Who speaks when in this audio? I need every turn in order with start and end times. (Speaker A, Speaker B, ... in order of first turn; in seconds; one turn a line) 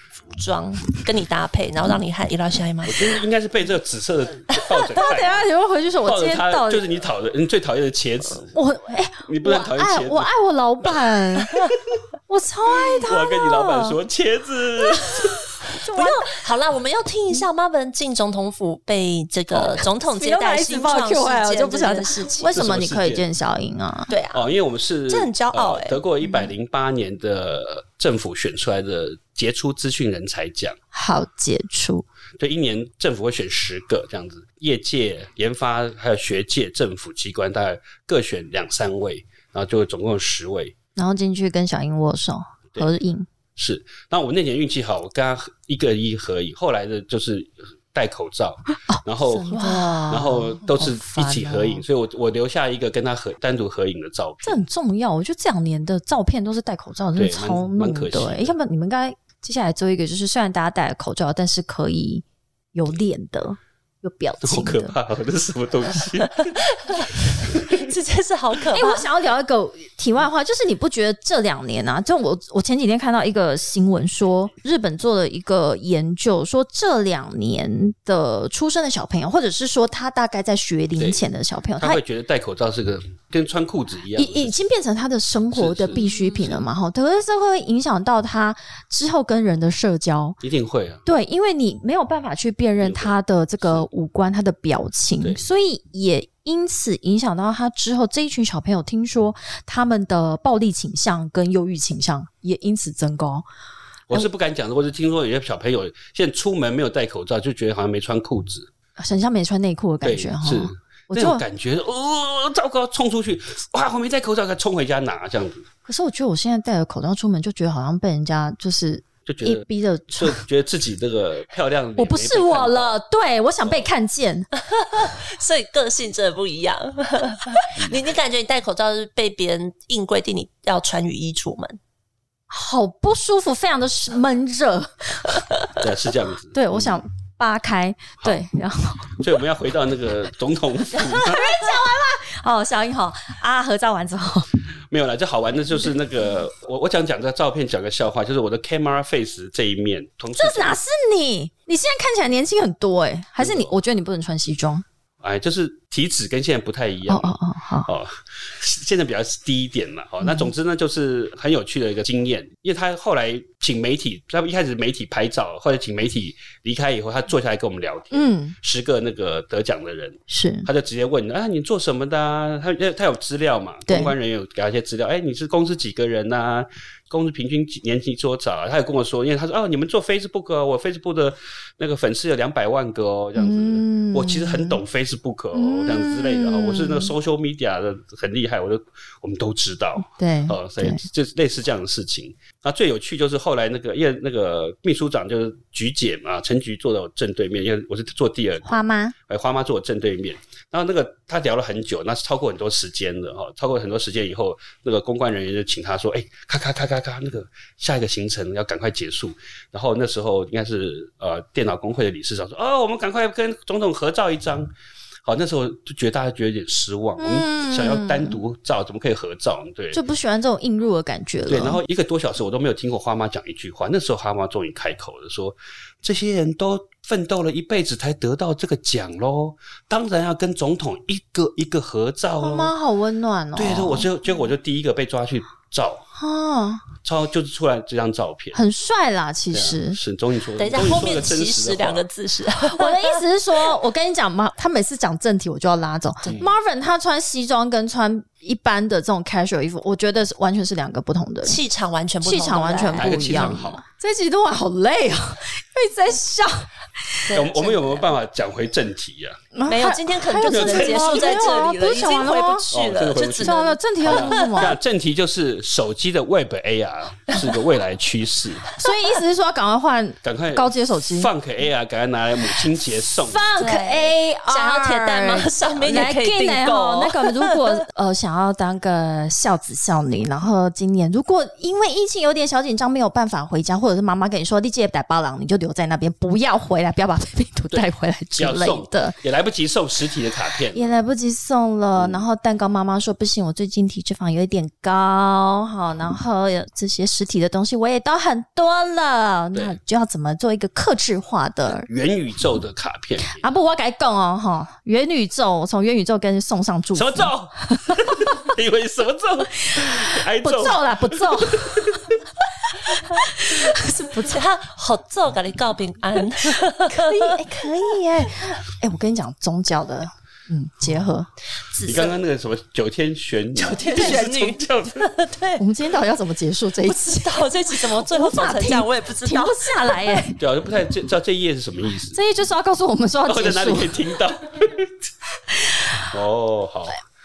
Speaker A: 0.3-3.1
Speaker B: 2.8-5.5
Speaker C: 4.8-6.8
Speaker B: 6.0-8.5
Speaker C: 8.5-11.7
Speaker B: 9.3-10.3
Speaker C: 12.3-14.0
Speaker B: 13.0-15.5
Speaker C: 14.8-16.3
Speaker A: 16.0-22.6
Speaker B: 19.5-19.9
Speaker C: 20.0-24.1
Speaker B: 22.5-23.2
Speaker A: 24.1-24.5
Speaker B: 24.3-30.8
Speaker A: 25.1-26.0
Speaker C: 30.9-32.0
Speaker B: 32.4-40.8
Speaker C: 41.0-43.3
Speaker B: 43.6-49.5
Speaker C: 48.9-51.8
Speaker A: 49.5-50.1
Speaker B: 50.1-54.6
Speaker C: 54.4-65.0
Speaker B: 57.2-58.5
Speaker B: 64.4-67.8
Speaker A: 66.8-69.0
Speaker C: 68.7-82.0
Speaker B: 81.8-84.5
Speaker C: 84.2-90.4
Speaker B: 85.5-86.6
Speaker B: 90.4-91.0
Speaker C: 91.0-103.5
Speaker B: 92.8-93.9
Speaker B: 104.1-108.7
Speaker C: 109.0-111.4
Speaker B: 110.0-115.7
Speaker C: 115.8-120.4
Speaker B: 119.3-119.7
Speaker B: 120.2-123.0
Speaker C: 122.0-124.5
Speaker B: 123.6-123.9
Speaker A: 124.6-131.8
Speaker C: 132.5-135.5
Speaker B: 135.8-137.0
Speaker C: 136.5-139.2
Speaker B: 139.1-141.6
Speaker C: 140.9-144.5
Speaker B: 144.9-150.8
Speaker C: 150.4-154.8
Speaker B: 153.4-153.7
Speaker B: 155.2-198.7
Speaker C: 157.1-157.9
Speaker C: 160.2-160.5
Speaker C: 168.1-168.6
Speaker C: 170.3-170.7
Speaker C: 173.9-174.1
Speaker C: 183.3-184.8
Speaker C: 185.6-187.1
Speaker C: 190.1-191.0
Speaker C: 198.7-199.2
Speaker B: 199.3-214.7
Speaker B: 215.2-220.0
Speaker C: 217.2-218.4
Speaker C: 219.9-221.8
Speaker B: 221.5-232.7
Speaker C: 232.4-234.1
Speaker B: 233.6-236.0
Speaker C: 236.2-236.8
Speaker B: 237.0-238.6
Speaker C: 238.5-240.0
Speaker B: 239.5-242.1
Speaker A: 240.6-243.2
Speaker C: 242.7-251.6
Speaker B: 246.3-246.5
Speaker A: 251.4-253.7
Speaker C: 252.2-257.3
Speaker B: 253.0-253.8
Speaker A: 257.3-258.1
Speaker B: 257.3-259.4
Speaker C: 259.6-264.8
Speaker A: 259.7-264.7
Speaker B: 260.4-261.4
Speaker B: 262.7-268.7
Speaker C: 268.8-271.3
Speaker B: 270.2-273.5
Speaker C: 273.3-289.2
Speaker A: 273.6-277.9
Speaker B: 288.4-290.9
Speaker C: 290.7-301.9
Speaker B: 292.0-292.2
Speaker B: 301.8-303.4
Speaker C: 303.2-308.3
Speaker B: 306.9-312.2
Speaker C: 309.7-312.1
Speaker C: 312.7-314.4
Speaker A: 314.3-317.4
Speaker C: 316.9-321.3
Speaker A: 321.7-322.1
Speaker B: 321.8-325.1
Speaker A: 323.6-325.6
Speaker C: 325.6-330.4
Speaker A: 326.9-330.2
Speaker B: 330.4-332.2
Speaker C: 332.1-334.0
Speaker B: 333.3-334.9
Speaker C: 335.5-336.0
Speaker B: 336.1-337.0